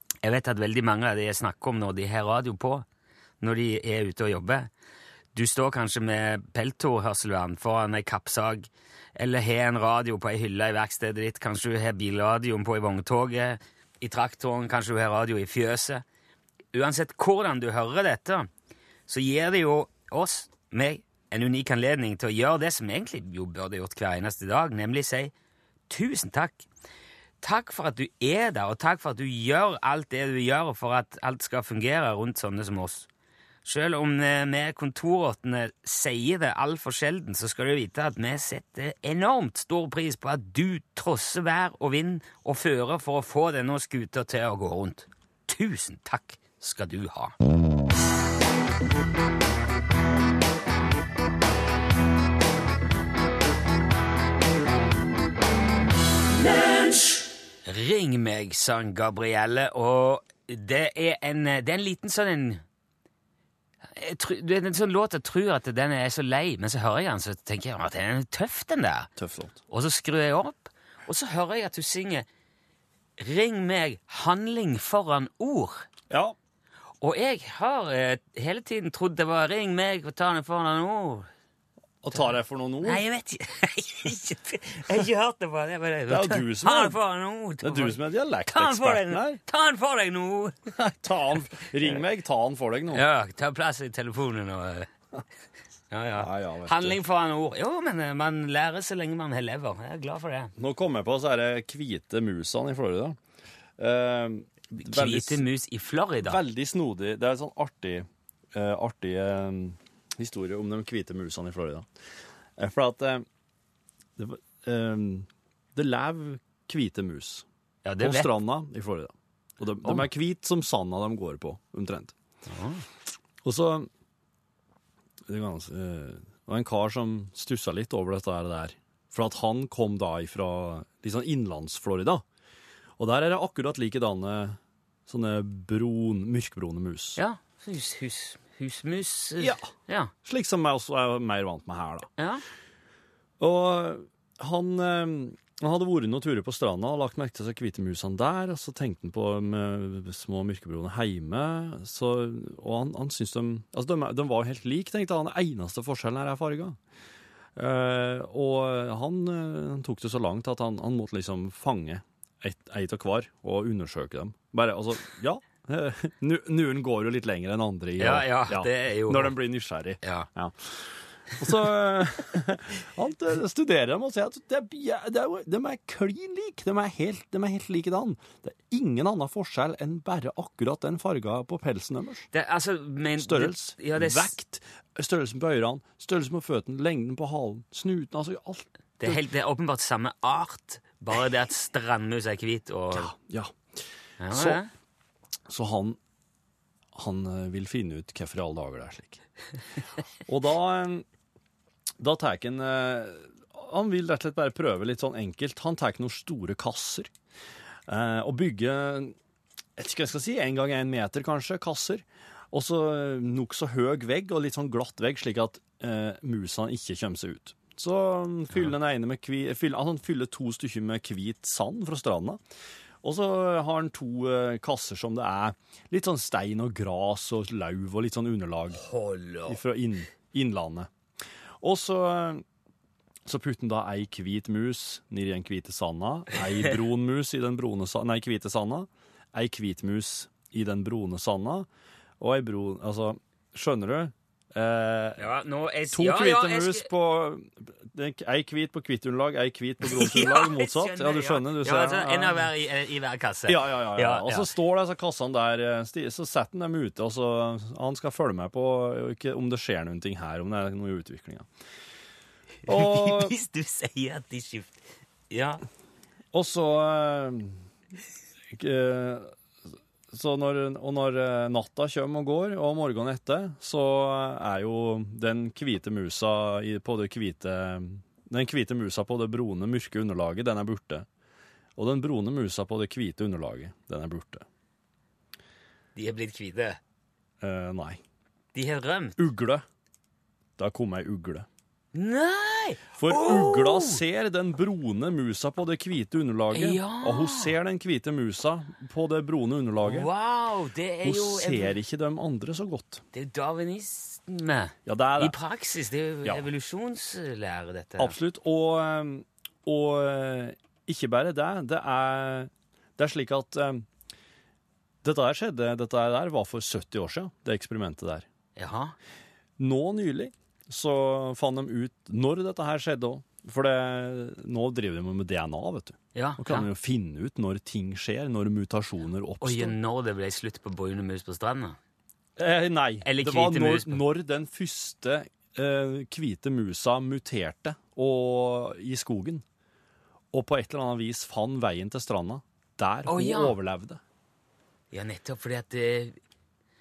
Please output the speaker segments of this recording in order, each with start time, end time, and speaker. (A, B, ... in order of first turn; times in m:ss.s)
0:00.2-0:02.8 A
0:03.4-0:04.7 A
0:05.3-0:16.0 A
0:16.7-0:18.5 A
0:19.1-0:25.3 A
0:25.9-0:26.6 A
0:27.4-0:33.1 A
0:33.6-0:47.3 A
0:57.6-1:02.6 A
1:03.9-1:09.1 A
1:09.2-1:09.6 B
1:09.7-1:12.2 A
1:13.2-1:15.8 A
1:16.1-1:16.4 B
1:17.0-1:21.3 A
1:22.0-1:23.0 B
1:22.8-1:28.0 A
1:26.1-1:27.0 B
1:27.6-1:29.4 B
1:28.5-1:30.6 A
1:30.7-1:33.0 B
1:32.9-1:34.9 A
1:35.9-1:40.5 A
1:36.2-1:37.0 B
1:40.6-1:43.2 B
1:43.8-1:45.4 B
1:44.7-1:46.4 A
1:46.2-1:51.9 B
1:52.6-1:53.2 B
1:54.2-1:57.4 B
1:57.8-1:58.3 A
1:58.0-2:02.1 B
2:02.5-2:02.8 A
2:03.4-2:03.9 B
2:05.2-2:12.2 B
2:13.0-2:17.2 B
2:17.2-2:20.1 A
2:19.4-2:19.7 B
2:20.2-2:22.1 B
2:22.2-2:22.4 A
2:23.4-2:36.8 B
2:37.6-3:02.3 B
2:48.0-2:49.4 A
2:50.0-2:50.3 A
3:02.3-3:04.3 A
3:03.2-3:09.2 B
3:09.0-3:13.1 A
3:12.9-3:13.8 B
3:14.2-3:14.7 A
3:14.3-3:14.6 B
3:15.5-3:16.0 B
3:16.9-3:19.2 B
3:20.2-3:21.1 B
3:22.0-3:27.1 B
3:27.9-3:29.2 B
3:29.8-3:42.4 B
3:43.0-3:48.8 B
3:48.7-3:49.6 A
3:49.5-3:50.9 B
3:51.6-3:52.4 B
3:53.2-4:01.7 B
4:02.2-4:05.3 B
4:05.2-4:06.9 A
4:05.9-4:12.5 B
4:09.8-4:14.5 A
4:13.5-4:21.5 B
4:22.6-4:23.4 B
4:22.6-4:25.6 A
4:26.3-4:27.6 B
4:28.5-4:29.4 B
4:30.1-4:41.1 B
4:41.8-4:44.4 B
4:45.9-4:46.8 A
4:47.4-4:48.0 B
4:48.5-4:49.2 A
4:49.2-4:49.6 B
4:50.6-4:51.5 B
4:51.9-4:54.0 A
4:53.0-5:00.1 B
4:56.5-4:57.5 A
4:59.8-5:01.8 A
5:01.0-5:03.0 B
5:03.1-5:08.2 A
5:04.9-5:05.4 B
5:08.0-5:13.9 B
5:15.0-5:18.2 B
5:18.6-5:19.0 A
5:19.6-5:29.8 B
5:26.1-5:26.7 A
5:29.4-5:31.8 A
5:32.4-5:39.4 B
5:33.0-5:34.0 A
5:40.3-5:44.0 B
5:43.1-5:43.6 A
5:44.9-5:46.2 A